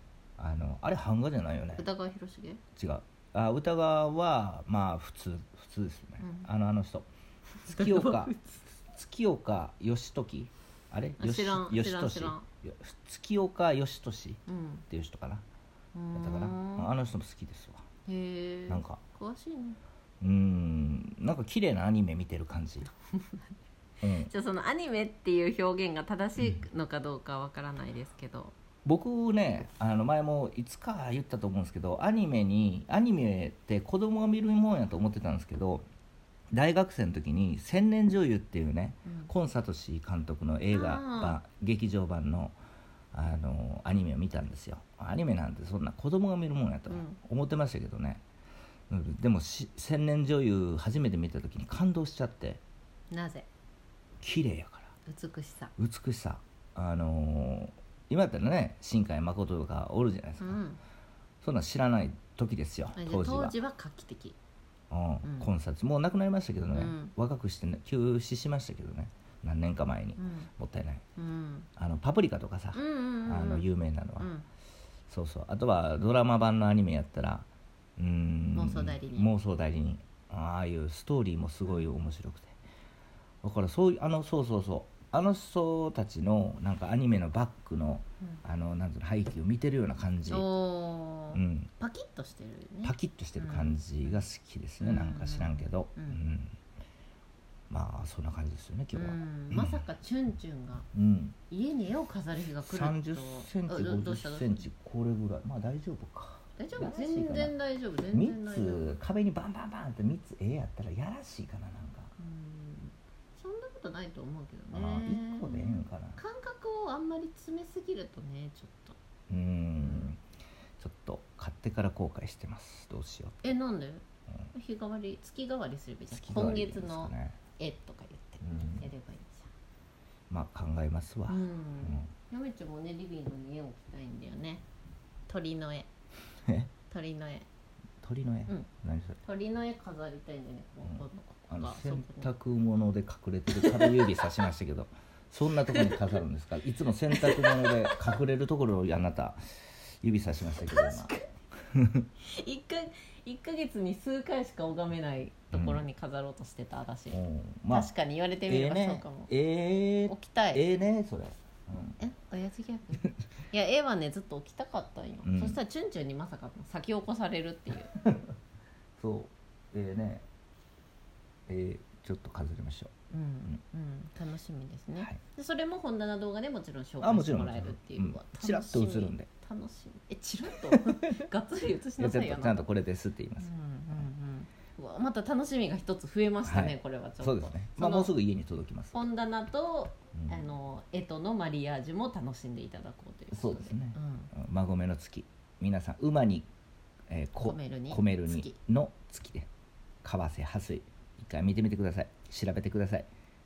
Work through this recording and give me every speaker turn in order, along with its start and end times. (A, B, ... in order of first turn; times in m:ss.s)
0:00.4-0:01.8 A
0:01.8-0:02.6 B
0:02.8-0:07.1 A
0:06.2-0:06.5 B
0:07.6-0:08.6 B
0:07.6-0:15.4 A
0:11.2-0:12.4 B
0:14.5-0:14.8 B
0:15.9-0:16.9 B
0:16.1-0:17.8 A
0:18.0-0:19.8 B
0:18.7-0:19.0 A
0:20.2-0:22.9 A
0:24.0-0:24.3 A
0:24.2-0:28.6 B
0:28.8-0:35.8 A
0:36.5-0:42.5 A
0:39.0-0:39.3 B
0:40.7-0:41.4 B
0:43.1-0:48.2 A
0:46.9-0:47.2 B
0:48.9-0:52.6 A
0:53.1-0:53.5 B
0:54.2-0:54.9 A
0:55.0-0:55.7 B
0:55.8-1:00.6 A
1:00.4-1:00.8 B
1:01.4-1:03.6 A
1:03.0-1:04.4 B
1:04.9-1:11.0 A
1:05.2-1:05.5 B
1:06.7-1:07.1 B
1:10.2-1:10.5 B
1:11.2-1:11.7 B
1:11.8-1:14.3 A
1:12.7-1:13.7 B
1:14.2-1:14.4 B
1:15.1-1:22.6 A
1:18.5-1:19.3 B
1:23.4-1:30.6 A
1:30.2-1:34.2 B
1:31.3-1:31.7 A
1:32.8-1:36.6 A
1:34.8-1:36.2 B
1:37.7-1:39.8 A
1:38.9-1:40.9 B
1:40.9-1:41.4 A
1:41.5-1:44.6 B
1:42.6-1:47.5 A
1:46.6-1:49.0 B
1:48.1-1:52.1 A
1:52.2-1:59.0 B
1:54.7-1:56.2 A
1:59.3-2:00.2 A
1:59.8-2:00.1 B
2:00.8-2:03.5 A
2:03.4-2:09.5 B
2:06.1-2:07.4 A
2:08.4-2:08.9 A
2:10.3-2:12.1 A
2:11.3-2:14.6 B
2:15.3-2:15.9 B
2:16.4-2:16.7 A
2:16.9-2:17.4 B
2:18.0-2:19.2 A
2:19.2-2:22.3 B
2:20.8-2:29.4 A
2:23.5-2:24.4 B
2:25.6-2:26.0 B
2:27.1-2:28.0 B
2:30.0-2:31.1 A
2:30.6-2:31.3 B
2:31.7-2:32.1 A
2:32.2-2:37.2 B
2:35.5-2:35.8 A
2:37.1-2:37.9 A
2:37.7-2:39.3 B
2:38.5-2:42.0 A
2:40.1-2:40.6 B
2:42.0-2:47.9 B
2:45.2-2:45.6 A
2:47.9-2:48.3 A
2:49.0-2:50.2 A
2:51.5-2:52.9 A
2:53.1-3:02.7 B
2:57.0-2:59.3 A
3:02.0-3:04.0 A
3:03.4-3:08.1 B
3:06.4-3:09.0 A
3:08.9-3:14.3 B
3:10.1-3:10.4 A
3:13.3-3:16.5 A
3:17.1-3:19.5 A
3:17.4-3:18.6 B
3:20.0-3:23.1 A